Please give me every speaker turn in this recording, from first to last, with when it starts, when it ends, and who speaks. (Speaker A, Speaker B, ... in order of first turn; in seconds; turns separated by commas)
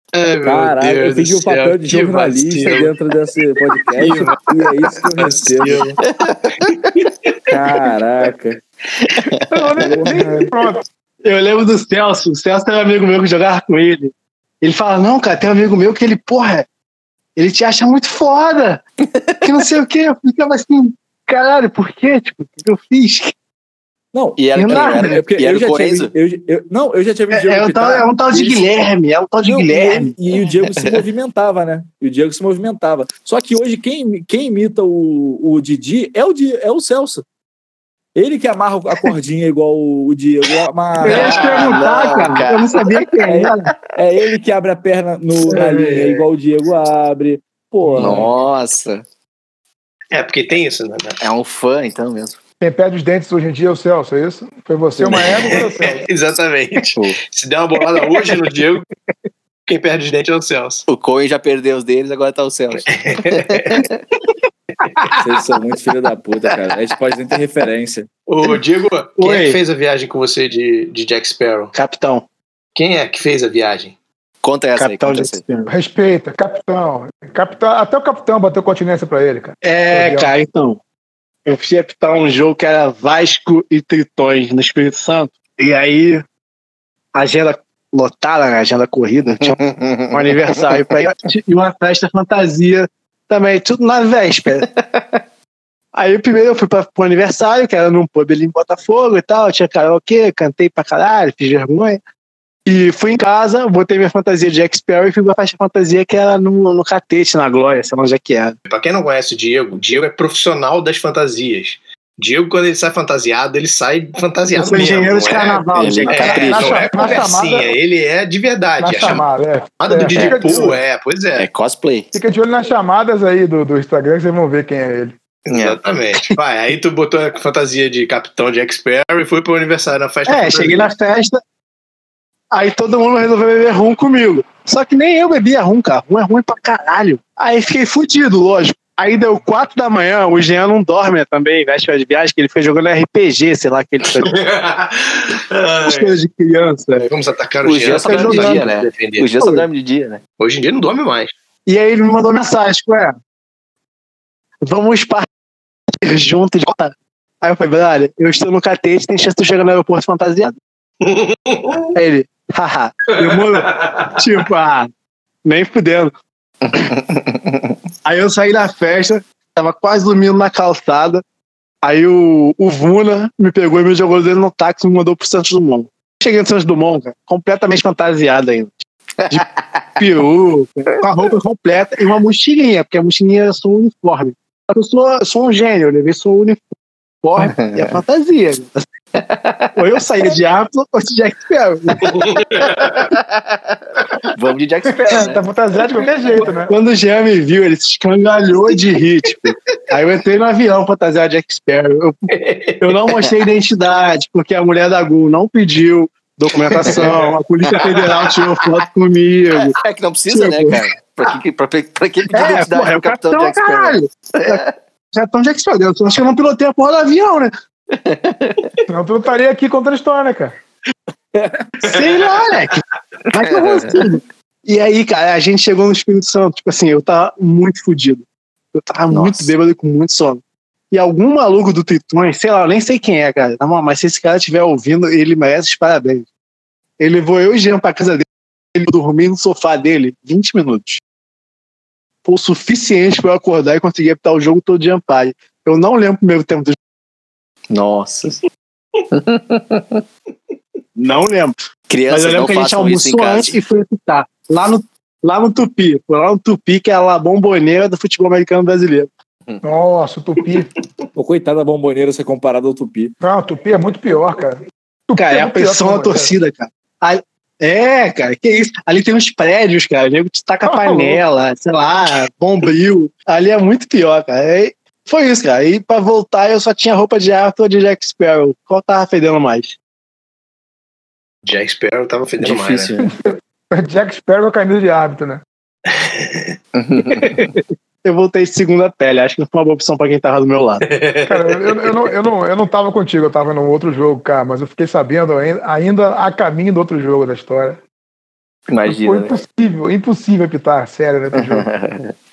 Speaker A: 0.1-2.9, Speaker B: 0.4-5.9, Speaker A: 3.9-6.0, Speaker C: 6.0-6.6, Speaker A: 6.6-7.5, Speaker B: 7.5-8.6, Speaker C: 9.1-9.4, Speaker D: 9.6-10.8, Speaker B: 9.8-10.4, Speaker E: 11.2-16.7, Speaker E: 17.4-18.8, Speaker E: 19.4-23.3, Speaker B: 24.1-28.7, Speaker C: 24.4-26.1, Speaker E: 24.6-25.2, Speaker E: 27.3-30.1, Speaker B: 29.4-37.2, Speaker C: 30.3-31.0, Speaker B: 38.1-42.4, Speaker E: 41.0-43.7, Speaker C: 41.0-43.1, Speaker B: 43.2-48.3, Speaker A: 45.5-46.2, Speaker C: 47.9-49.0, Speaker A: 50.1-51.2, Speaker C: 51.2-52.4, Speaker D: 52.6-56.1, Speaker A: 55.1-58.8, Speaker E: 58.0-58.4, Speaker A: 59.7-60.8, Speaker C: 60.9-64.0, Speaker A: 62.9-63.9, Speaker B: 65.2-68.1, Speaker A: 68.3-71.7, Speaker E: 69.2-69.6, Speaker E: 71.7-72.2, Speaker A: 72.8-74.0, Speaker C: 74.4-75.4, Speaker E: 74.8-75.7, Speaker D: 75.7-80.3, Speaker E: 79.6-80.8, Speaker E: 81.5-86.2, Speaker E: 87.1-89.6, Speaker C: 89.6-90.8, Speaker E: 90.1-94.7, Speaker E: 95.9-102.0, Speaker E: 102.7-108.6, Speaker A: 108.7-119.2, Speaker E: 114.5-116.7, Speaker C: 115.8-117.1, Speaker D: 116.2-117.8, Speaker D: 118.8-120.8, Speaker A: 119.8-121.5, Speaker C: 120.2-120.5, Speaker C: 121.4-122.1, Speaker D: 122.1-125.2, Speaker A: 125.5-130.9, Speaker C: 125.5-125.8, Speaker E: 130.3-131.4, Speaker E: 132.5-144.3, Speaker A: 144.2-146.1, Speaker E: 145.9-147.1, Speaker A: 147.1-149.3, Speaker C: 147.6-150.2, Speaker E: 148.0-148.7, Speaker A: 150.4-151.3, Speaker E: 151.7-153.2, Speaker E: 154.6-155.3, Speaker E: 156.0-160.6, Speaker A: 161.0-161.9, Speaker E: 161.9-164.9, Speaker A: 163.2-164.1, Speaker E: 165.4-166.1, Speaker C: 166.6-167.8, Speaker E: 168.0-171.2, Speaker E: 171.8-179.4, Speaker C: 179.2-179.9, Speaker E: 180.0-186.6, Speaker E: 187.2-188.8, Speaker C: 187.4-188.0, Speaker C: 189.2-189.7, Speaker E: 189.8-192.4, Speaker A: 192.1-193.1, Speaker C: 192.9-195.4, Speaker D: 195.0-196.7, Speaker E: 196.7-202.3, Speaker A: 202.3-202.9, Speaker E: 202.8-209.8, Speaker A: 206.8-207.3, Speaker C: 209.6-214.7, Speaker E: 210.3-210.8, Speaker E: 212.3-217.5, Speaker C: 217.9-218.7, Speaker D: 218.9-220.6, Speaker E: 221.8-236.3, Speaker A: 221.9-222.4, Speaker C: 223.4-224.1, Speaker C: 229.1-229.5, Speaker E: 237.0-241.0, Speaker E: 242.2-246.8, Speaker C: 247.7-248.4, Speaker C: 249.1-250.0, Speaker E: 251.0-251.6, Speaker C: 251.9-253.6, Speaker E: 252.1-259.1, Speaker D: 259.6-260.7, Speaker B: 261.1-263.1, Speaker D: 263.2-266.3, Speaker E: 265.2-279.8, Speaker D: 270.6-271.2, Speaker A: 281.4-282.9, Speaker C: 282.4-283.1, Speaker D: 283.0-285.4, Speaker A: 285.9-286.5, Speaker C: 286.8-287.5, Speaker E: 287.5-290.8, Speaker A: 290.9-292.0, Speaker D: 291.3-297.8, Speaker C: 298.7-299.3, Speaker D: 298.9-301.7, Speaker C: 301.3-302.1